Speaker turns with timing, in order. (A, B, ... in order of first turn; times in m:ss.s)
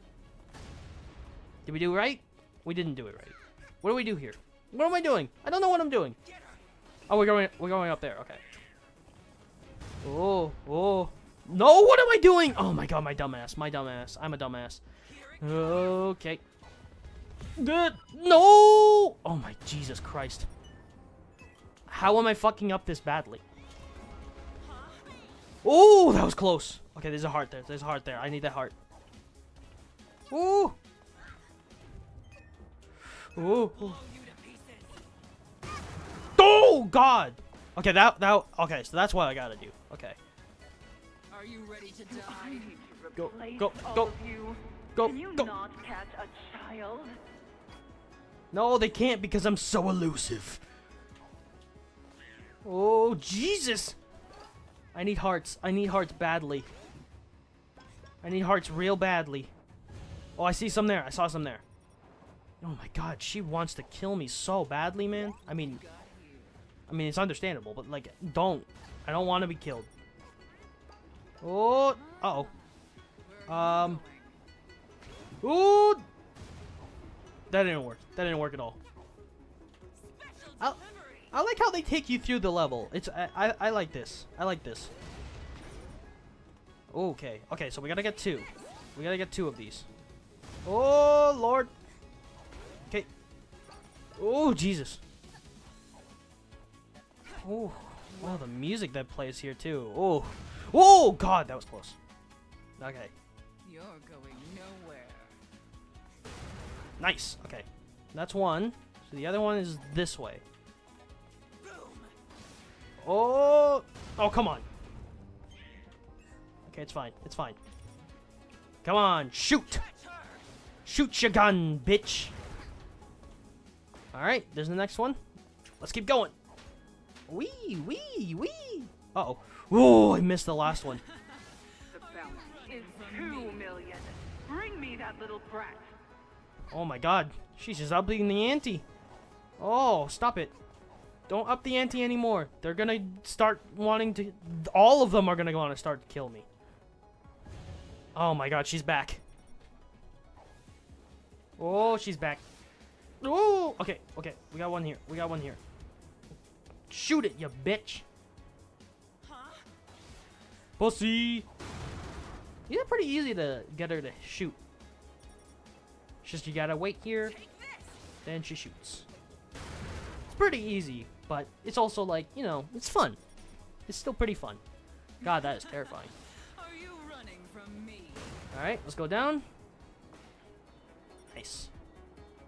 0:01.6-0:06.2 A
0:07.1-0:08.4 A
0:10.0-0:14.8 A
0:15.2-0:15.6 B
0:15.4-0:16.4 A
0:17.6-0:20.5 A
0:21.9-0:23.4 A
0:24.6-0:25.2 B
0:25.6-0:28.8 A
0:30.3-0:30.8 A
0:33.3-0:34.0 A
0:33.4-0:35.0 B
0:36.4-0:40.2 A
0:41.3-0:42.8 B
0:42.1-0:47.2 C
0:43.2-0:44.1 A
0:45.0-0:45.5 A
0:48.5-0:50.6 A
0:52.6-0:54.0 A
0:54.9-0:56.7 A
0:58.2-0:59.5 A
1:00.4-1:01.6 A
1:02.6-1:05.8 A
1:05.4-1:06.6 B
1:06.9-1:09.9 A
1:11.4-1:12.5 A
1:11.9-1:14.4 B
1:13.5-1:14.0 A
1:15.4-1:16.0 A
1:17.5-1:18.8 A
1:20.0-1:20.7 B
1:20.8-1:21.2 C
1:21.3-1:24.9 A
1:26.9-1:29.9 A
1:30.6-1:31.7 A
1:34.2-1:35.0 A
1:37.3-1:42.0 A
1:42.8-1:43.1 A
1:43.6-1:45.4 B
1:47.0-1:50.4 A
1:51.6-1:52.1 B
1:53.0-1:54.6 A
1:56.6-1:57.6 A
1:58.8-1:59.8 A
1:59.8-2:00.4 B
2:00.8-2:02.3 A
2:04.1-2:05.2 A
2:05.8-2:06.4 A
2:07.3-2:11.0 A
2:10.9-2:13.8 B
2:11.9-2:15.9 C
2:16.7-2:18.9 A
2:19.6-2:20.5 A
2:21.3-2:26.4 A
2:28.1-2:29.2 A
2:31.6-2:32.4 A
2:33.2-2:35.6 A
2:36.9-2:38.0 A
2:39.2-2:39.6 B
2:40.8-2:41.5 A
2:42.7-2:44.6 A
2:46.2-2:47.4 A
2:47.2-2:48.0 B
2:48.2-2:49.1 A
2:50.3-2:53.2 A
2:53.9-2:54.6 A
2:55.2-2:56.1 A
2:55.2-2:58.4 B
2:58.5-2:59.5 A
3:01.3-3:01.7 A